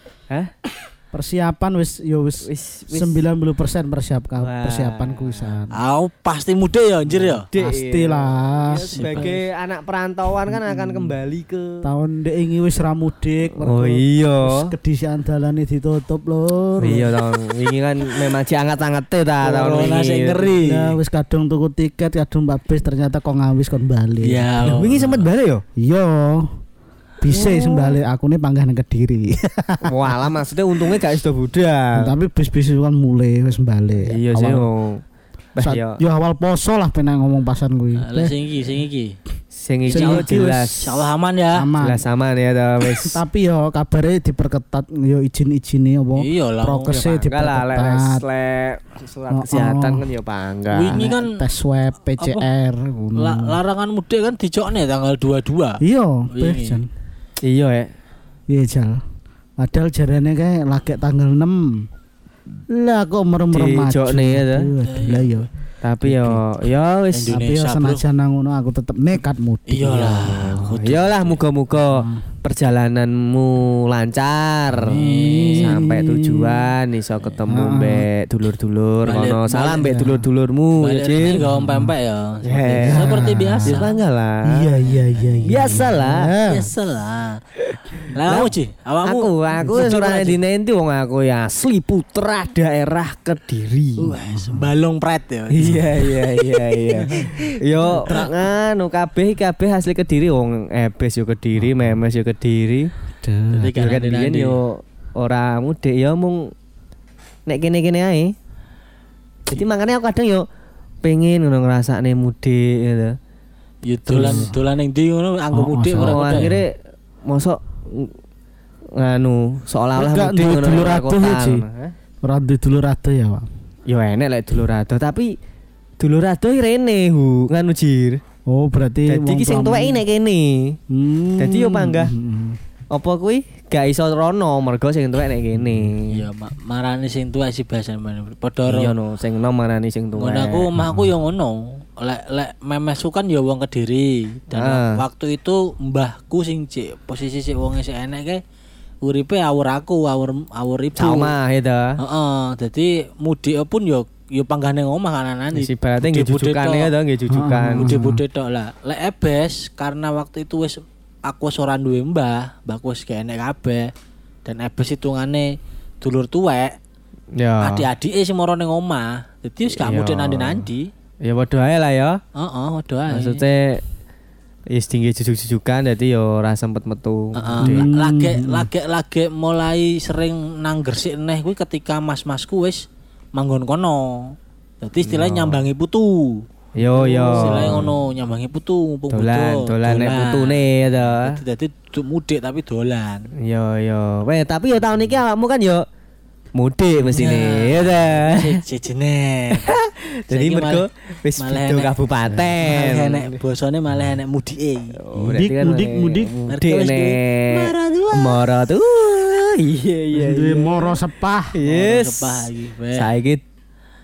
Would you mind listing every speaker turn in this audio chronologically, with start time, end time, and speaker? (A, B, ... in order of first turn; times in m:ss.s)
0:01.1-0:05.8 A
0:02.4-0:03.2 B
0:04.4-0:05.6 B
0:05.7-0:07.4 C
0:07.3-0:09.3 A
0:07.5-0:11.8 B
0:08.9-0:09.4 C
0:10.5-0:11.2 A
0:11.8-0:17.1 A
0:13.6-0:14.7 B
0:16.8-0:20.6 B
0:19.4-0:21.0 C
0:20.6-0:24.9 A
0:24.2-0:25.3 C
0:24.6-0:25.6 B
0:25.8-0:26.6 A
0:27.2-0:30.2 A
0:29.8-0:32.1 B
0:31.9-0:34.7 A
0:34.1-0:35.0 B
0:35.6-0:36.0 B
0:35.6-0:38.3 A
0:38.0-0:39.2 C
0:39.6-0:41.0 B
0:39.9-0:41.6 C
0:39.9-0:40.9 A
0:41.5-0:42.0 A
0:41.8-0:43.2 B
0:43.1-0:48.2 A
0:46.2-0:47.2 C
0:46.9-0:51.1 B
0:49.3-0:50.1 A
0:50.7-0:51.4 C
0:50.9-0:53.6 A
0:52.2-0:52.4 C
0:53.2-0:55.8 C
0:55.8-0:56.9 A
0:56.3-0:56.8 C
0:57.4-0:57.9 B
0:58.5-0:59.0 A
0:59.6-1:01.9 A
1:02.7-1:05.5 A
1:03.5-1:04.7 B
1:04.8-1:05.4 C
1:05.8-1:07.4 B
1:06.0-1:06.4 A
1:07.1-1:08.0 C
1:07.3-1:10.6 A
1:09.7-1:11.4 C
1:10.7-1:15.0 B
1:11.8-1:12.2 A
1:14.8-1:15.8 C
1:14.8-1:16.7 A
1:15.6-1:21.4 B
1:17.5-1:18.1 A
1:19.0-1:20.0 C
1:19.8-1:20.2 A
1:20.8-1:23.9 C
1:21.4-1:21.9 A
1:22.4-1:24.7 B
1:22.8-1:23.9 A
1:24.4-1:26.7 A
1:24.8-1:25.9 C
1:25.4-1:26.3 B
1:26.4-1:27.4 C
1:27.6-1:34.1 B
1:28.1-1:30.4 C
1:34.0-1:38.3 C
1:34.2-1:34.7 A
1:35.5-1:42.9 B
1:37.9-1:38.2 A
1:41.6-1:41.8 A
1:43.2-1:43.7 A
1:43.5-1:44.6 C
1:43.7-1:46.5 B
1:47.5-1:48.3 B
1:49.5-1:50.4 B
1:51.0-1:53.2 B
1:53.8-1:56.5 C
1:54.1-1:54.5 A
1:54.1-1:54.5 B
1:55.5-1:56.6 A
1:56.0-1:56.7 B
1:57.2-1:58.1 B
1:59.0-2:01.9 B
2:00.0-2:01.6 A
2:02.2-2:03.5 A
2:03.9-2:05.3 B
2:06.0-2:08.2 B
2:08.5-2:10.0 A
2:09.1-2:10.8 B
2:10.9-2:12.6 A
2:11.4-2:12.1 B
2:12.9-2:16.2 B
2:15.6-2:15.9 A
2:16.1-2:18.9 C
2:18.6-2:20.7 B
2:20.2-2:28.4 C
2:20.8-2:21.1 A
2:24.5-2:25.0 B
2:29.0-2:31.3 C
2:31.0-2:32.0 B
2:32.0-2:36.9 C
2:35.5-2:37.9 B
2:37.3-2:38.2 A
2:37.8-2:43.9 C
2:44.4-2:46.8 C
2:47.4-2:47.9 B
2:47.6-2:50.9 C
2:49.7-2:50.6 B
2:51.2-2:52.2 B
2:52.3-2:53.4 C
2:53.1-2:53.8 B
2:54.7-2:57.9 B
2:57.3-3:13.3 C
2:57.6-2:58.7 A
3:05.0-3:05.6 B
3:06.8-3:07.9 B
3:07.5-3:07.8 A
3:09.1-3:11.4 B
3:13.4-3:15.8 B
3:16.5-3:18.6 B
3:17.1-3:19.8 C
3:19.5-3:23.4 B
3:20.3-3:25.0 C
3:25.0-3:30.9 B
3:25.2-3:26.3 A
3:26.5-3:28.4 C
3:30.1-3:31.5 A
3:31.5-3:33.4 B
3:31.6-3:33.1 C